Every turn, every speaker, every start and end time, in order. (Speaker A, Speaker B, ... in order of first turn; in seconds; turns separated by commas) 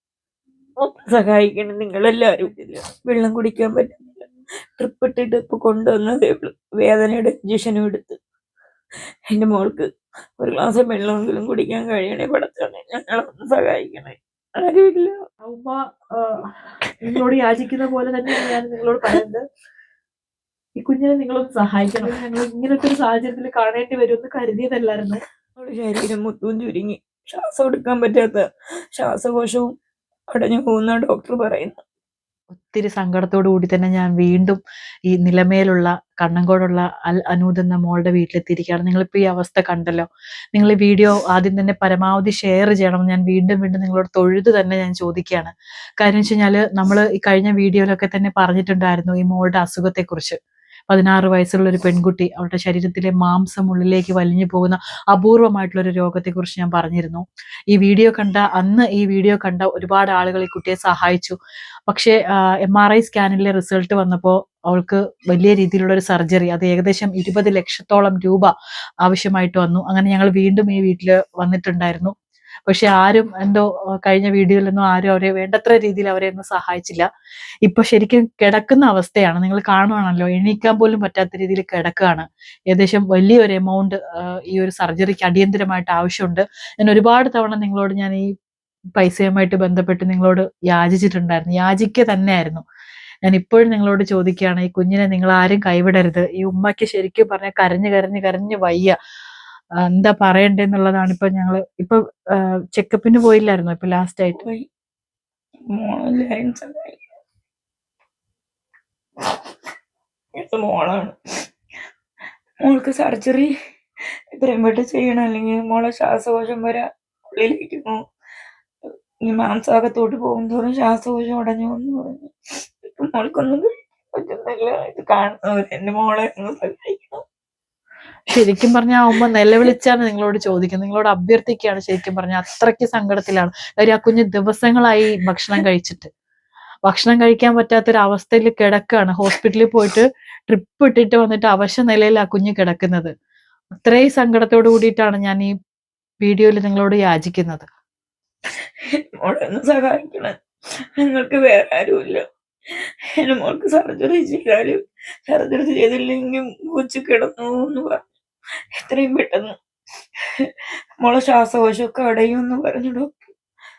Speaker A: 0.8-8.2, Speaker A: 9.3-15.2, Speaker B: 15.4-16.4, Speaker B: 17.0-19.4, Speaker B: 20.8-25.2, Speaker A: 25.6-29.7, Speaker A: 30.3-31.8, Speaker B: 32.5-34.6, Speaker B: 35.1-50.4, Speaker B: 50.9-68.5, Speaker B: 69.0-72.1, Speaker B: 72.7-77.0, Speaker B: 77.6-88.3, Speaker B: 89.0-92.6, Speaker B: 93.2-98.9, Speaker B: 99.9-102.0, Speaker B: 102.7-104.4, Speaker A: 105.7-107.0, Speaker A: 110.3-111.2, Speaker A: 112.6-113.5, Speaker A: 114.3-118.0, Speaker A: 119.2-122.3, Speaker A: 122.8-127.2, Speaker B: 128.3-136.1, Speaker B: 136.9-143.1, Speaker B: 143.8-145.5, Speaker B: 146.2-147.7, Speaker A: 148.9-150.3, Speaker A: 151.0-152.2, Speaker A: 152.7-158.1, Speaker A: 158.7-159.5, Speaker A: 160.4-163.3